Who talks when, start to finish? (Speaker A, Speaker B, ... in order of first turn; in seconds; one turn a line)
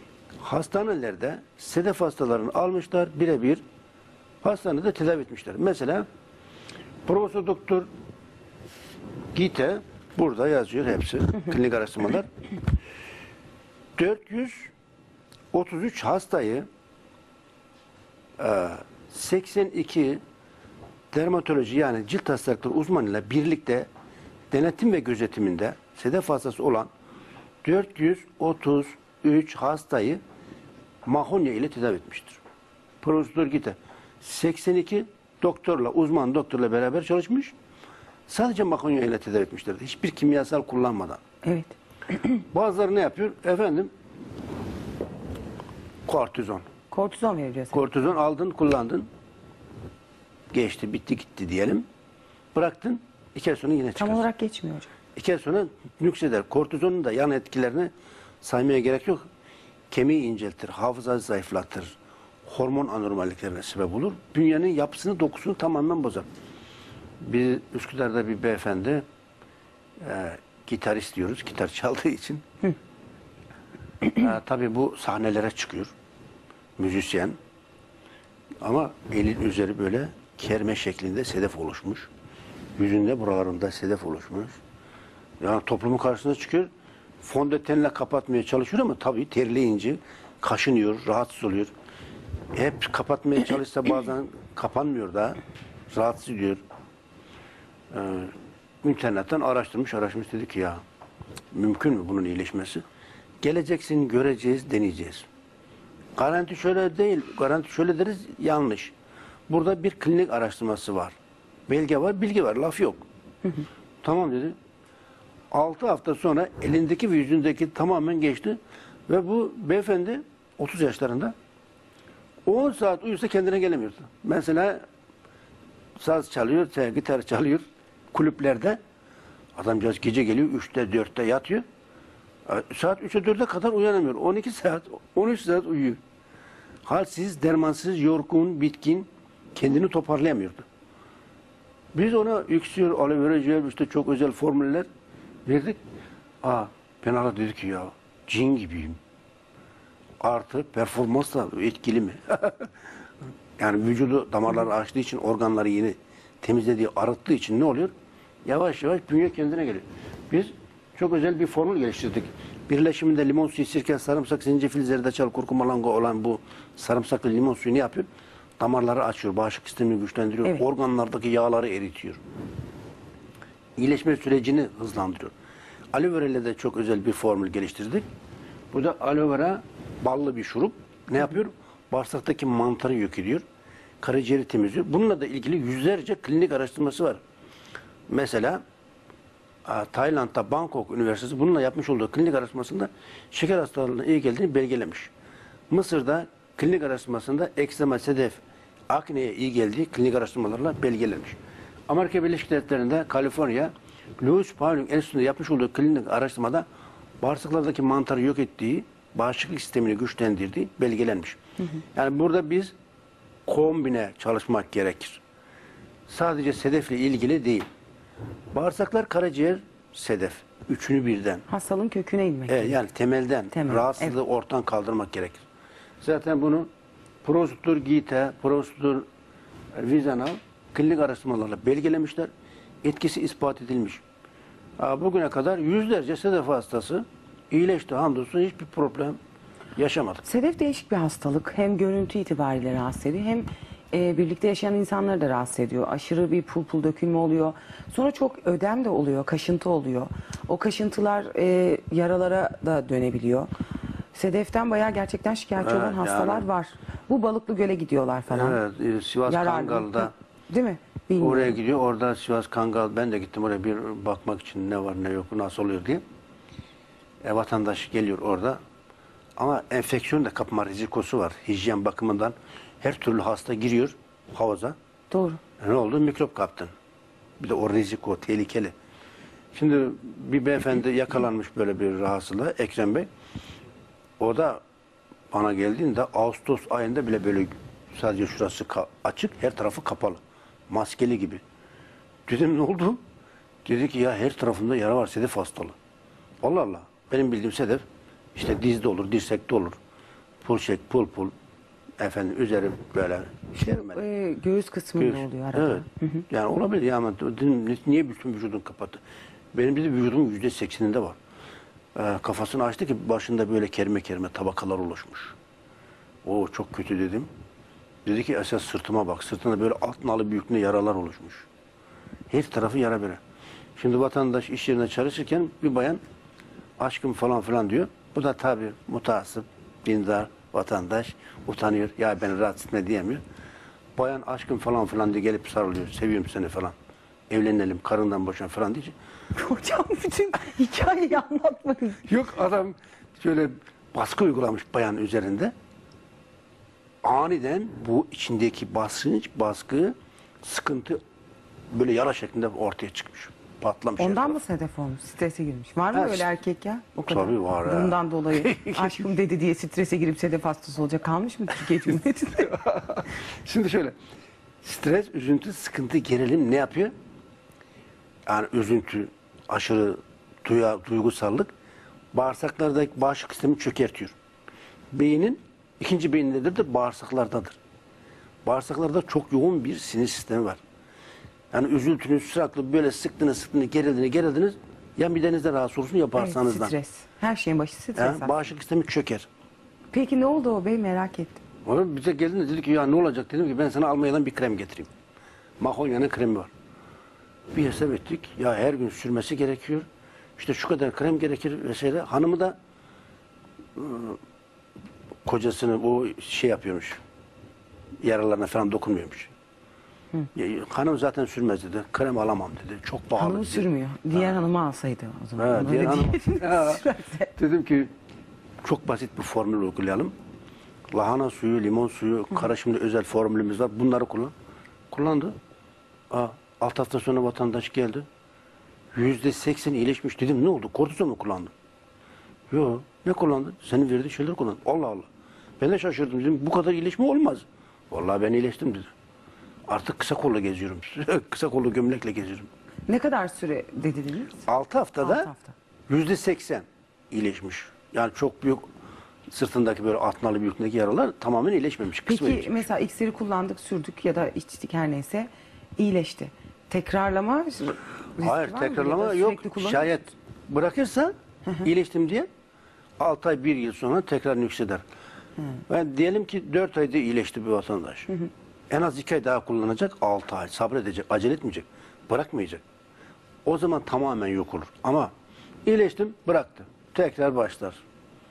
Speaker A: 0.4-3.6
Speaker A: 4.4-6.0
Speaker A: 7.0-7.9
Speaker A: 9.3-12.3
Speaker A: 14.0-14.7
Speaker A: 15.5-16.7
Speaker A: 18.4-20.2
Speaker A: 21.1-23.9
Speaker A: 24.5-26.9
Speaker A: 27.6-30.2
Speaker A: 31.1-32.4
Speaker A: 33.0-37.5
Speaker A: 38.3-41.2
Speaker B: 41.4-41.7
Speaker A: 42.5-43.9
Speaker A: 46.0-46.7
Speaker B: 46.9-47.8
Speaker A: 47.7-49.1
Speaker A: 50.5-51.8
Speaker A: 52.5-54.2
Speaker B: 54.0-54.9
Speaker A: 55.1-59.2
Speaker A: 59.9-66.3
Speaker A: 67.2-69.0
Speaker A: 70.0-72.7
Speaker A: 74.0-75.9
Speaker A: 76.8-77.4
Speaker A: 78.6-82.1
Speaker A: 82.8-84.6
Speaker A: 85.4-86.7
Speaker A: 87.2-91.7
Speaker A: 92.5-96.6
Speaker A: 97.9-100.8
Speaker A: 101.5-102.8
Speaker A: 103.4-105.3
Speaker A: 106.2-108.9
Speaker A: 109.5-111.2
Speaker A: 111.7-113.0
Speaker A: 114.0-114.5
Speaker A: 115.5-121.3
Speaker A: 122.5-124.8
Speaker A: 126.0-128.8
Speaker A: 129.6-131.6
Speaker A: 132.5-136.0
Speaker A: 136.8-140.6
Speaker A: 141.9-144.9
Speaker A: 145.4-145.8
Speaker A: 146.4-149.0
Speaker A: 150.2-152.7
Speaker A: 153.6-157.9
Speaker A: 158.4-168.1
Speaker A: 168.6-172.2
Speaker A: 173.8-175.3
Speaker A: 175.9-178.0
Speaker A: 178.7-183.4
Speaker A: 184.0-187.2
Speaker A: 188.1-188.6
Speaker A: 189.7-195.1
Speaker A: 195.7-201.4
Speaker A: 201.9-206.7
Speaker A: 207.2-211.4
Speaker A: 211.9-212.7
Speaker A: 213.5-215.2
Speaker A: 216.1-217.7
Speaker A: 218.5-221.4
Speaker B: 221.5-222.8
Speaker A: 222.5-225.4
Speaker B: 223.5-224.1
Speaker A: 226.0-226.7
Speaker A: 227.2-229.1
Speaker A: 229.7-232.3
Speaker A: 232.8-234.0
Speaker A: 234.8-239.2
Speaker A: 239.8-240.2
Speaker B: 240.2-253.5
Speaker B: 254.1-258.6
Speaker A: 255.6-256.5
Speaker A: 258.3-260.1
Speaker B: 259.2-261.6
Speaker A: 261.2-266.0
Speaker A: 267.2-268.6
Speaker A: 269.4-274.8
Speaker B: 275.1-275.4
Speaker A: 275.6-276.7
Speaker A: 277.4-278.7
Speaker A: 279.5-283.1
Speaker A: 284.2-284.6
Speaker A: 285.3-291.4
Speaker A: 292.3-293.0
Speaker A: 293.6-295.7
Speaker A: 296.4-297.8
Speaker A: 298.3-299.8
Speaker A: 300.4-301.3
Speaker A: 302.0-304.1
Speaker B: 303.6-306.2
Speaker A: 305.0-309.0
Speaker A: 309.5-311.2
Speaker A: 311.9-315.4
Speaker A: 316.2-317.3
Speaker A: 318.0-321.5
Speaker A: 322.3-323.2
Speaker A: 323.8-326.0
Speaker A: 326.8-333.2
Speaker A: 333.9-336.7
Speaker A: 337.3-338.9
Speaker B: 339.4-342.0
Speaker A: 342.1-345.5
Speaker A: 347.0-351.0
Speaker A: 351.7-354.4
Speaker B: 354.0-362.5
Speaker A: 355.9-356.3
Speaker A: 357.1-359.0
Speaker A: 362.3-363.9
Speaker A: 364.6-366.9
Speaker A: 368.3-371.5
Speaker A: 372.1-374.1
Speaker A: 374.9-377.6
Speaker A: 378.4-380.6
Speaker A: 381.5-386.7
Speaker B: 386.1-388.3
Speaker A: 387.9-389.3
Speaker B: 389.9-391.4
Speaker A: 391.6-394.9
Speaker A: 395.6-396.5
Speaker A: 397.5-399.9
Speaker A: 400.4-402.6
Speaker A: 403.8-404.2
Speaker A: 405.2-407.0
Speaker A: 408.0-409.3
Speaker A: 410.3-414.3
Speaker B: 413.2-417.3
Speaker A: 415.4-417.9
Speaker A: 418.6-420.1
Speaker A: 420.9-424.3
Speaker A: 424.9-425.4
Speaker A: 426.1-428.1
Speaker A: 428.9-431.5
Speaker A: 432.5-435.1
Speaker A: 435.6-438.9
Speaker A: 439.7-442.5
Speaker B: 442.9-444.4
Speaker A: 444.4-445.3
Speaker B: 445.0-445.5
Speaker A: 445.9-448.7
Speaker A: 449.3-452.7
Speaker B: 452.1-460.0
Speaker A: 458.2-462.3
Speaker A: 463.0-464.8
Speaker A: 465.7-468.1
Speaker A: 468.7-472.6
Speaker A: 473.4-475.1
Speaker A: 475.6-477.8